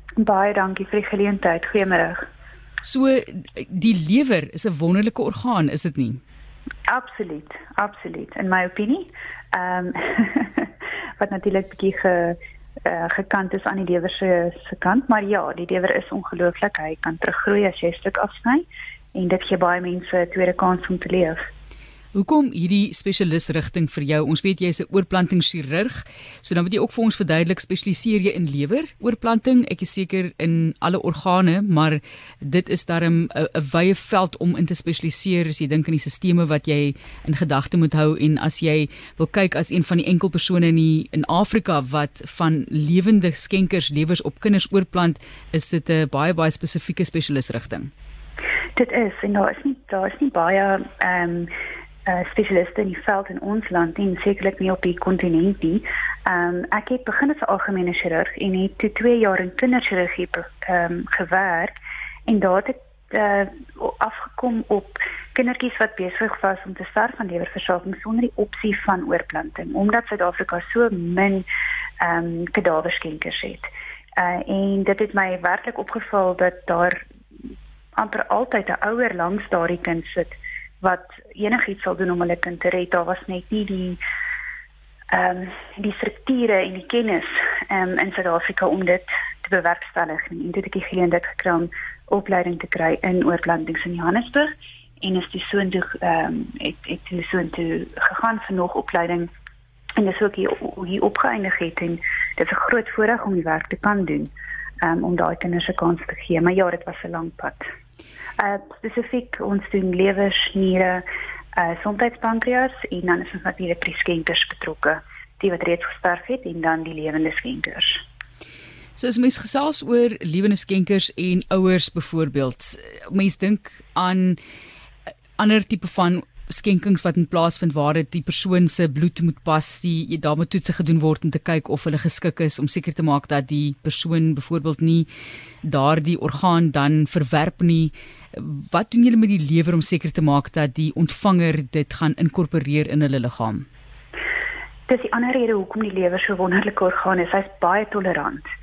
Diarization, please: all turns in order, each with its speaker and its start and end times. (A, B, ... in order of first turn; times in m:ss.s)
0:00.2-0:02.3 A
0:02.8-0:06.2 B
0:06.9-0:21.5 A
0:22.1-0:47.9 B
0:48.8-0:51.5 A
0:52.0-1:01.8 A
1:02.3-1:11.5 A
1:12.0-1:17.0 A
1:18.0-1:24.0 A
1:25.1-1:39.3 A
1:40.0-1:47.7 A
1:48.4-1:58.0 A
1:59.0-2:04.4 B
2:05.4-2:15.1 B
2:15.6-2:23.7 B
2:24.9-2:28.4 A